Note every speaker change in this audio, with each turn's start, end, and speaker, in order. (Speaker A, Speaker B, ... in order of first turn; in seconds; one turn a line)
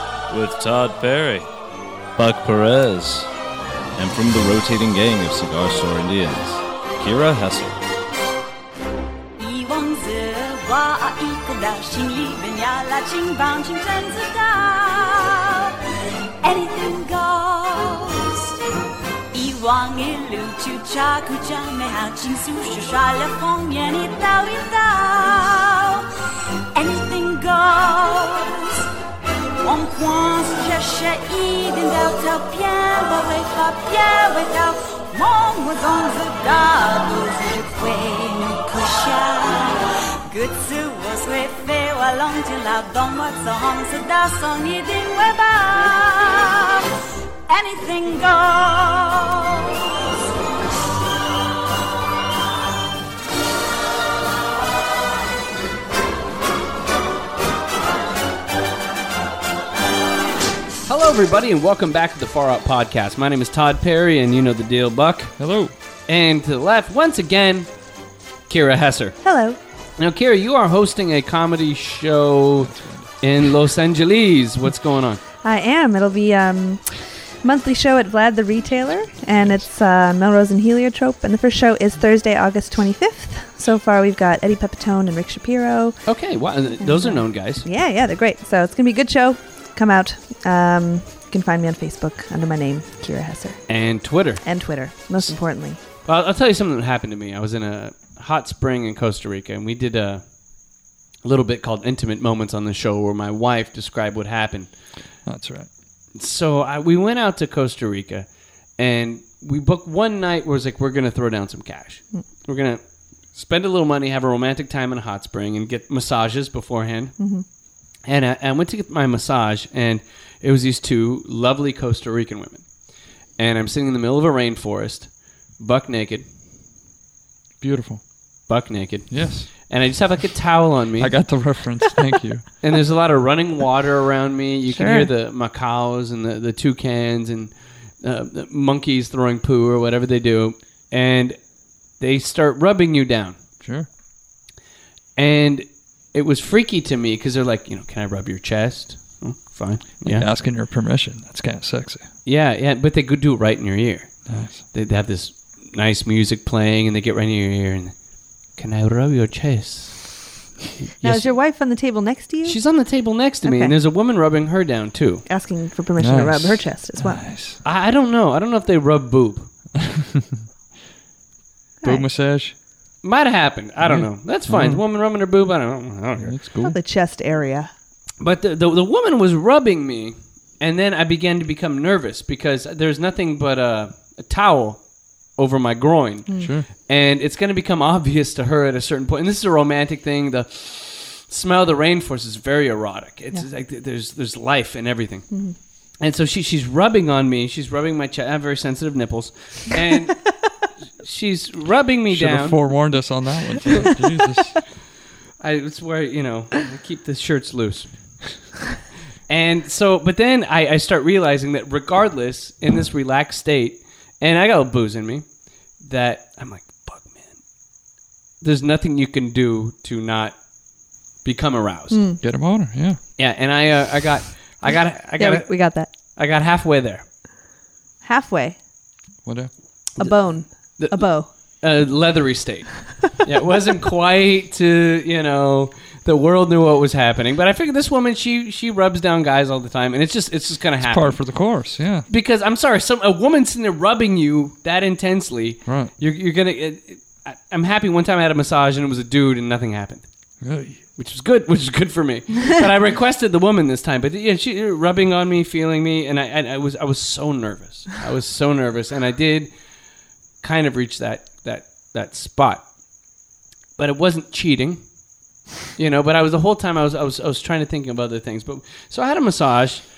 Speaker A: 0.3-1.5
Speaker A: 2.2-3.3
Speaker A: 4.0-7.8
Speaker B: 9.4-15.8
Speaker B: 16.4-18.5
Speaker B: 19.3-26.1
Speaker B: 26.8-28.9
Speaker B: 29.6-46.9
Speaker B: 47.5-50.0
Speaker C: 60.9-65.3
Speaker D: 65.4-65.7
Speaker C: 66.1-67.7
Speaker C: 68.5-69.2
Speaker E: 69.2-69.6
Speaker C: 70.0-75.2
Speaker D: 72.6-73.1
Speaker E: 75.4-86.0
Speaker C: 86.1-87.7
Speaker E: 86.8-93.6
Speaker C: 93.7-94.5
Speaker E: 94.4-95.8
Speaker C: 96.0-100.2
Speaker C: 101.2-104.7
Speaker D: 105.2-105.7
Speaker C: 106.2-108.3
Speaker C: 108.8-112.8
Speaker C: 113.3-117.2
Speaker E: 117.2-117.4
Speaker C: 118.1-122.6
Speaker C: 123.4-126.2
Speaker D: 127.6-128.0
Speaker C: 128.5-131.1
Speaker D: 129.1-129.5
Speaker D: 131.0-132.5
Speaker C: 132.6-141.4
Speaker E: 134.7-135.1
Speaker C: 142.0-143.4
Speaker D: 143.6-143.9
Speaker C: 145.2-150.3
Speaker D: 150.1-152.1
Speaker C: 152.2-157.9
Speaker D: 154.3-154.6
Speaker C: 158.6-160.2
Speaker E: 161.0-162.6
Speaker C: 162.4-165.2
Speaker E: 163.4-163.7
Speaker E: 165.3-167.2
Speaker D: 166.0-167.6
Speaker C: 167.6-169.5
Speaker D: 169.8-170.4
Speaker D: 171.8-172.6
Speaker C: 173.0-176.3
Speaker D: 173.8-174.8
Speaker D: 176.2-176.8
Speaker E: 176.6-177.7
Speaker C: 178.2-184.8
Speaker C: 185.4-195.3
Speaker E: 186.3-186.5
Speaker D: 186.4-186.7
Speaker C: 196.0-200.3
Speaker C: 201.0-202.6
Speaker D: 202.1-204.6
Speaker C: 205.4-207.9
Speaker C: 209.3-215.2
Speaker C: 215.8-217.3
Speaker C: 218.4-220.3
Speaker C: 221.2-222.0
Speaker E: 221.9-222.2
Speaker D: 222.2-223.0
Speaker C: 223.2-227.0
Speaker E: 225.2-225.9
Speaker E: 228.0-228.6
Speaker D: 229.2-229.5
Speaker C: 230.0-230.2
Speaker E: 230.0-231.3
Speaker C: 230.8-231.1
Speaker C: 231.6-241.2
Speaker D: 240.8-242.1
Speaker C: 242.1-250.0
Speaker D: 245.7-245.9
Speaker D: 250.4-250.8
Speaker C: 251.0-259.5
Speaker C: 260.4-262.6
Speaker C: 263.8-264.8
Speaker C: 265.8-269.8